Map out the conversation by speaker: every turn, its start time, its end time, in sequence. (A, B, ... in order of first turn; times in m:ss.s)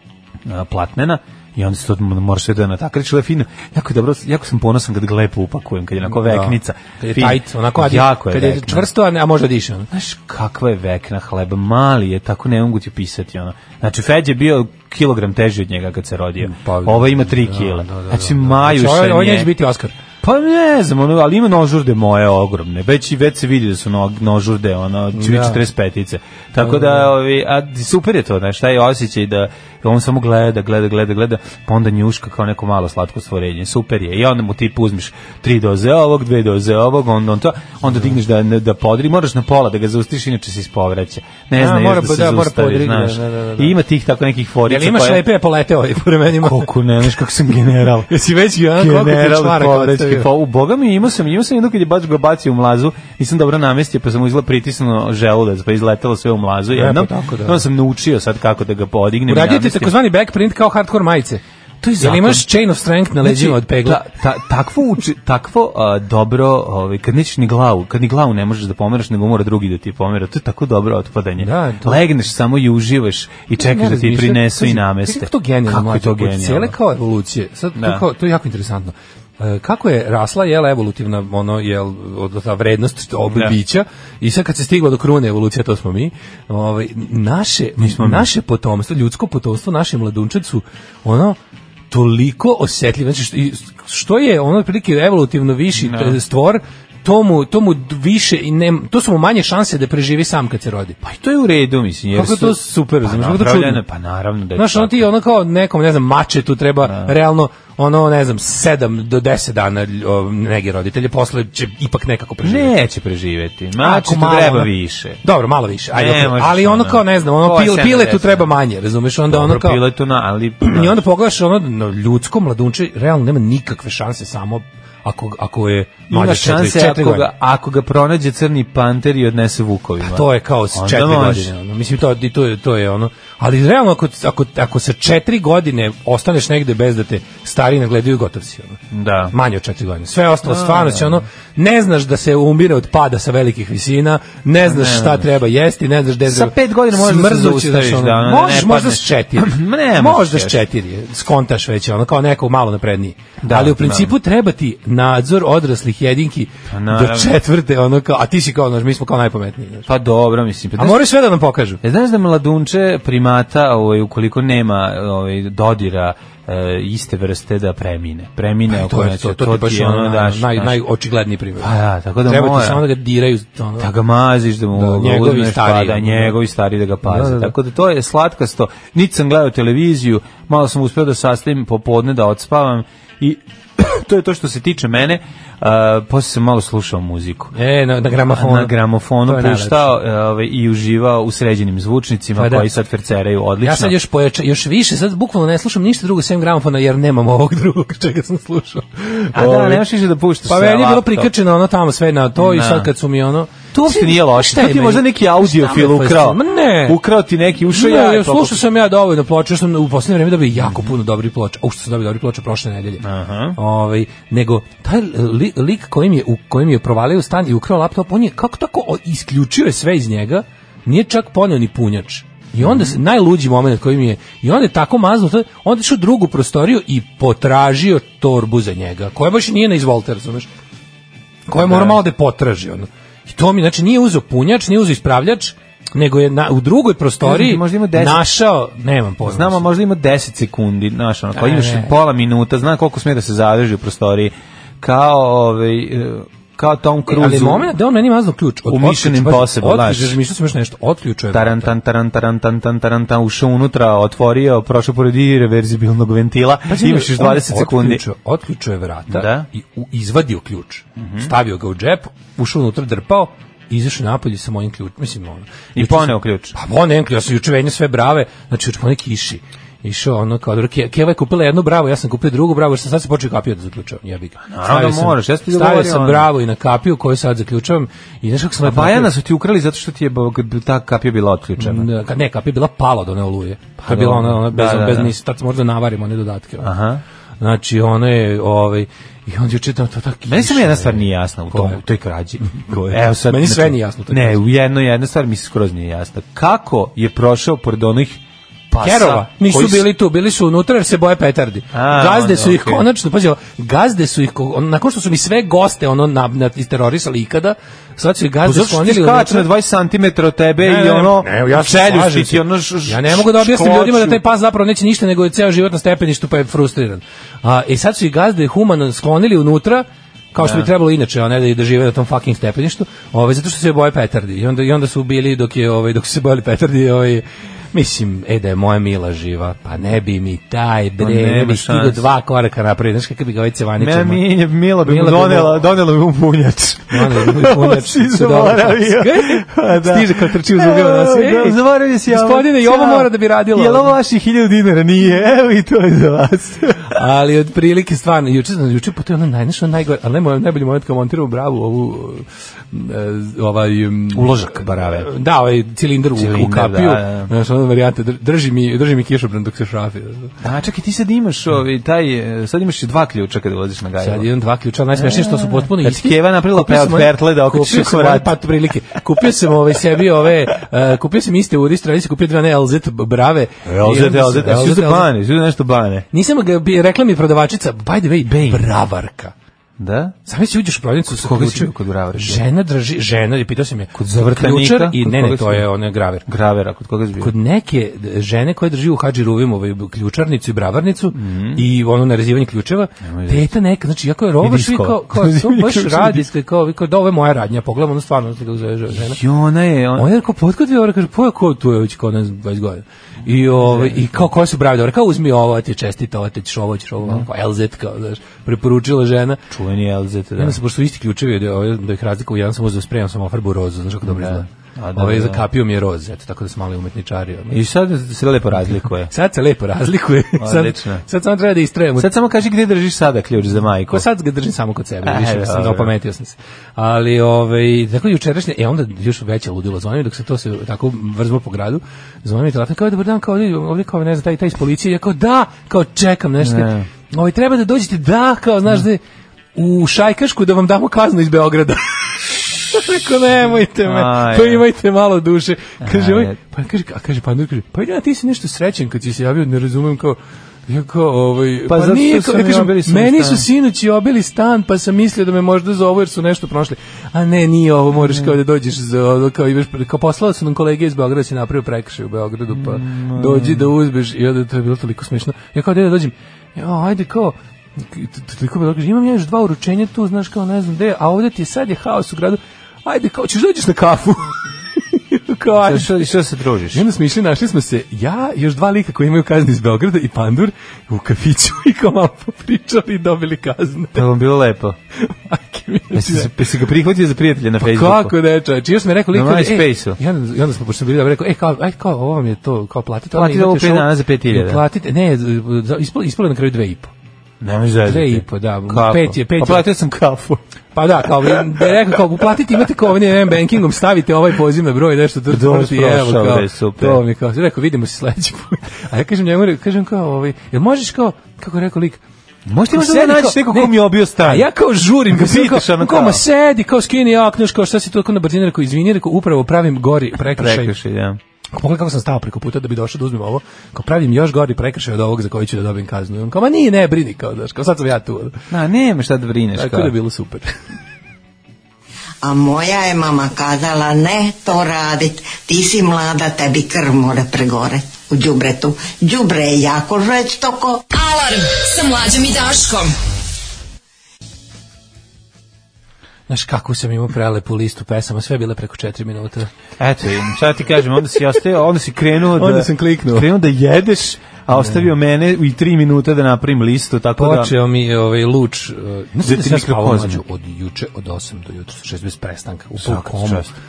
0:00.4-0:08.9 A
0:06.1-0:09.9 B
0:09.9-0:19.5 A
0:16.4-0:19.9 B
0:20.2-0:45.2 A
0:25.1-0:25.6 B
0:26.6-0:27.1 B
0:37.9-0:38.1 B
0:41.6-0:43.8 B
0:44.7-0:46.7 B
0:46.4-0:48.1 A
0:48.1-0:50.3 B
0:48.8-0:59.9 A
0:56.7-0:57.6 B
0:59.3-1:04.1 B
1:02.0-1:02.5 A
1:03.2-1:16.8 A
1:11.4-1:12.0 B
1:13.6-1:31.4 B
1:17.8-1:18.0 A
1:27.8-1:28.3 A
1:31.9-1:41.0 B
1:35.8-1:36.2 A
1:41.0-1:45.1 A
1:42.1-1:43.8 B
1:44.6-1:52.8 B
1:46.8-1:47.2 A
1:52.4-1:55.2 A
1:53.8-1:54.7 B
1:55.2-1:59.8 B
1:55.9-1:58.5 A
1:59.3-2:01.0 A
2:00.6-2:07.3 B
2:06.1-2:11.5 A
2:10.0-2:18.8 B
2:18.9-2:19.3 A
2:19.3-2:39.9 B
2:20.4-2:21.2 A
2:24.6-2:25.3 A
2:26.2-2:30.6 A
2:33.4-2:34.1 A
2:36.7-2:37.4 A
2:39.9-2:41.1 A
2:40.8-2:41.8 B
2:41.8-2:50.8 A
2:48.7-2:51.7 B
2:51.6-2:52.8 A
2:52.2-2:53.9 B
2:53.8-3:07.5 A
2:54.7-2:56.4 B
2:57.0-2:57.5 B
3:07.5-3:10.0 B
3:08.3-3:14.0 A
3:12.4-3:12.7 B
3:13.6-3:19.8 B
3:19.3-3:21.3 A
3:20.5-3:27.0 B
3:22.4-3:22.9 A
3:23.7-3:28.6 A
3:27.7-3:33.0 B
3:30.6-3:31.0 A
3:33.0-3:33.6 A
3:33.6-3:50.5 B
3:42.6-3:43.0 A
3:51.5-3:59.6 B
3:51.6-3:52.0 A
3:57.2-3:58.2 A
3:59.2-4:07.7 A
4:01.4-4:01.9 B
4:07.1-4:11.7 B
4:08.7-4:10.2 A
4:11.3-4:18.0 A
4:16.7-4:39.1 B
4:19.1-4:19.5 A
4:21.0-4:21.3 A
4:25.8-4:26.6 A
4:34.5-4:36.3 A
4:38.6-4:41.9 A
4:41.6-4:46.7 B
4:43.8-4:45.1 A
4:46.6-4:47.0 A
4:47.4-4:51.8 B
4:50.3-4:59.9 A
4:52.5-4:54.4 B
4:58.8-5:09.5 B
5:01.7-5:02.9 A
5:08.4-5:14.2 A
5:10.6-5:34.2 B
5:20.4-5:20.7 A
5:31.0-5:32.0 A
5:33.8-5:46.9 A
5:34.8-5:35.6 B
5:36.9-5:43.9 B
5:46.9-6:00.3 B
5:54.1-5:55.1 A
5:56.1-5:57.3 A
6:00.4-6:04.3 A
6:04.0-6:15.1 B
6:05.0-6:08.4 A
6:13.6-6:16.1 A
6:16.1-6:19.3 B
6:18.2-6:18.7 A
6:19.8-6:20.2 A
6:20.3-6:26.2 B
6:21.1-6:22.4 A
6:23.9-6:25.7 A
6:26.3-6:27.3 A
6:27.2-6:39.2 B
6:31.1-6:31.6 A
6:33.0-6:33.5 A
6:34.4-6:36.3 A
6:39.0-6:40.1 A
6:40.0-6:49.4 B
6:43.5-6:44.1 A
6:49.5-6:50.6 A
6:50.4-6:57.6 B
6:54.0-6:55.4 A
6:57.5-6:59.1 A
6:59.1-7:02.1 B
7:00.4-7:01.0 A
7:02.0-7:04.1 A
7:03.9-7:19.0 B
7:05.0-7:05.9 A
7:16.4-7:16.9 A
7:19.6-7:56.1 B
7:23.8-7:24.6 A
7:25.8-7:26.4 A
7:31.7-7:33.5 A
7:38.0-7:38.3 A
7:42.5-7:43.7 A
7:55.6-7:56.8 A
7:56.7-8:04.1 B
8:04.0-8:04.8 A
8:05.0-8:06.5 B
8:05.9-8:08.1 A
8:07.6-8:16.9 B
8:09.1-8:10.0 A
8:13.1-8:14.6 A
8:17.4-8:20.4 A
8:17.9-8:19.7 B
8:20.8-8:32.0 B
8:21.3-8:21.6 A
8:25.3-8:27.0 A
8:32.5-8:34.5 A
8:32.7-8:40.7 B
8:35.1-8:36.2 A
8:40.2-8:41.2 A
8:41.5-8:48.4 B
8:48.5-8:49.9 A
8:49.6-8:50.5 B
8:52.2-9:00.8 C
9:00.9-9:03.0 D
9:06.3-9:09.5 B
9:09.8-9:17.5 A
9:12.3-9:13.3 B
9:14.6-9:14.8 B
9:17.2-9:23.5 B
9:19.2-9:20.2 A
9:22.8-9:23.5 A